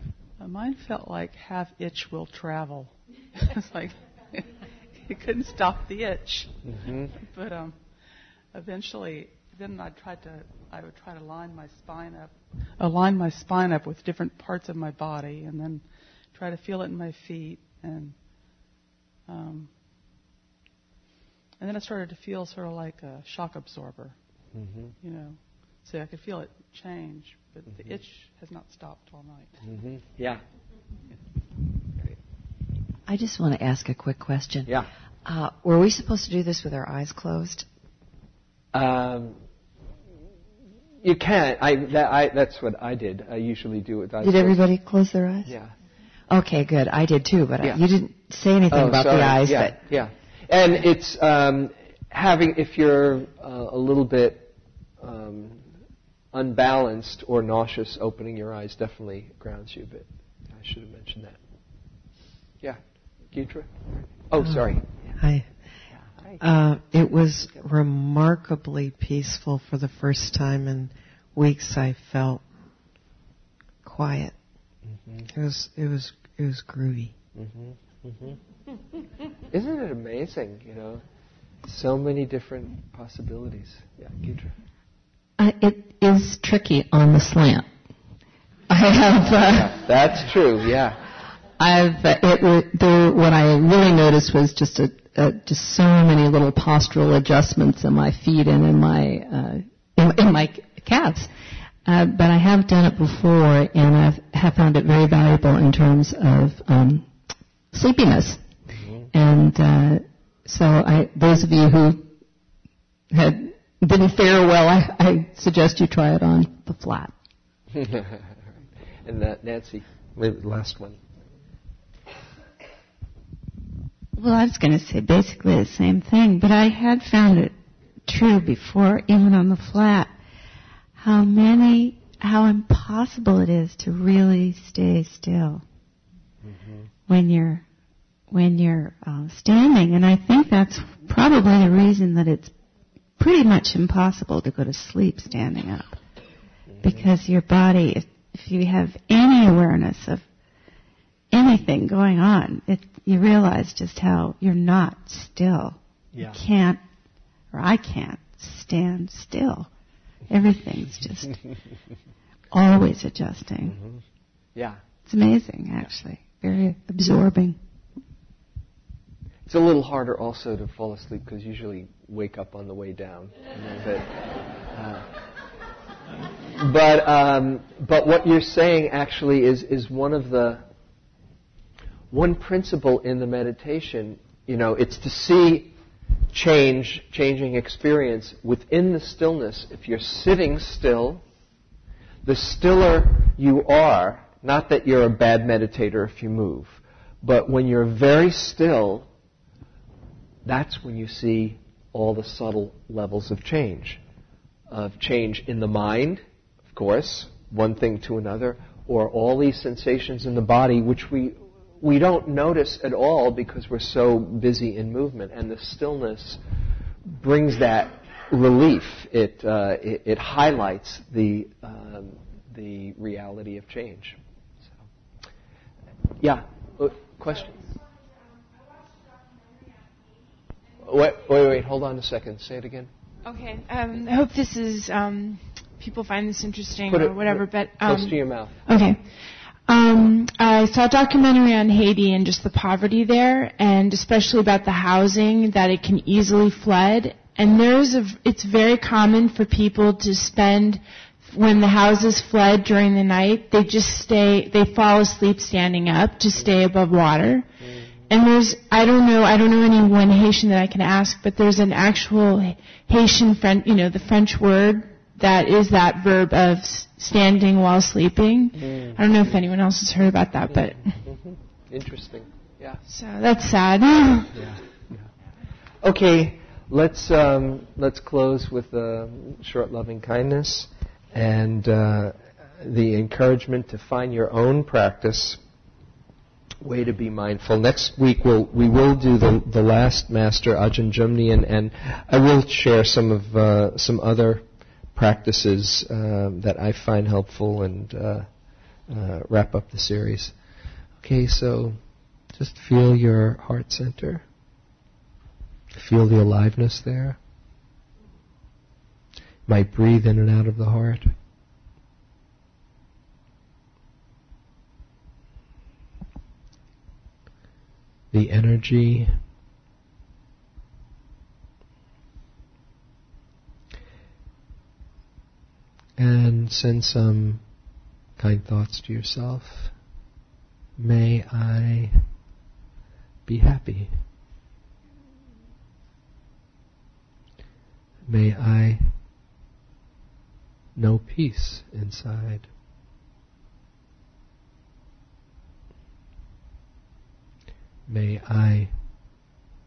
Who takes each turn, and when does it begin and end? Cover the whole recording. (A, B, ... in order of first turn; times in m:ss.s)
0:00.4-0:07.8 A
0:06.7-0:07.1 B
0:08.5-0:18.2 A
0:19.3-0:19.7 A
0:21.6-0:24.2 A
0:24.5-0:24.9 B
0:25.0-0:29.6 A
0:29.6-0:30.4 B
0:33.0-0:37.6 C
0:38.7-0:39.4 B
0:41.0-0:44.7 B
0:44.2-0:45.5 C
0:45.4-0:45.7 B
0:46.3-0:49.8 C
0:48.7-0:55.6 B
0:56.3-1:01.4 B
1:02.6-1:04.9 B
1:05.2-1:05.5 D
1:06.4-1:12.4 D
1:13.8-1:14.3 D
1:14.9-1:15.3 B
1:15.3-1:17.1 D
1:17.3-1:18.4 B
1:19.5-1:21.0 B
1:21.6-1:24.5 B
1:25.4-1:27.7 E
1:28.7-1:29.7 E
1:29.2-1:31.0 B
1:31.6-1:41.3 E
1:41.8-1:47.1 E
1:47.7-1:48.4 E
1:48.7-1:49.1 B
1:49.1-1:52.1 E
1:53.1-1:57.1 E
1:57.7-1:58.3 B
1:59.0-2:01.0 B
2:04.2-2:07.5 F
2:08.0-2:10.1 F
2:11.0-2:15.6 F
2:16.4-2:16.9 B
2:17.1-2:17.6 F
2:18.3-2:22.5 F
2:23.2-2:26.0 F
2:26.7-2:27.1 B
2:26.8-2:30.2 F
2:31.3-2:36.8 F
2:36.1-2:36.4 B
2:37.5-2:39.7 F
2:40.3-2:41.4 F
2:42.5-2:43.8 F
2:43.7-2:44.0 B
2:44.6-2:44.8 B
2:45.0-2:47.6 F
2:49.5-2:54.1 B
2:54.7-2:55.1 B
2:56.5-3:00.6 B
3:02.1-3:05.7 B
3:06.3-3:11.2 B
3:12.2-3:19.1 B
3:20.4-3:24.0 B
3:24.7-3:26.2 B
3:26.7-3:36.4 B
3:37.1-3:44.8 B
3:46.2-3:47.6 B
3:50.8-3:52.9 B
3:53.2-3:59.0 G
3:56.8-3:58.6 B
3:59.7-4:17.4 G
4:17.6-4:17.9 B
4:18.1-4:31.0 G
4:28.6-4:29.4 B
4:30.7-4:32.8 B
4:32.8-4:34.4 G
4:34.3-4:35.0 B
4:35.8-4:45.4 B
4:46.6-4:58.3 B
4:58.9-5:00.3 B
5:01.0-5:01.8 B
5:02.3-5:04.2 B
5:05.7-5:07.2 B
5:09.5-5:11.1 B
5:18.1-5:19.1 B
5:26.0-5:27.4 B
5:28.2-5:29.7 B
5:30.8-5:32.0 B
5:33.3-5:33.9 B
5:38.1-5:38.9 B
5:40.8-5:42.5 B
5:47.9-5:48.7 B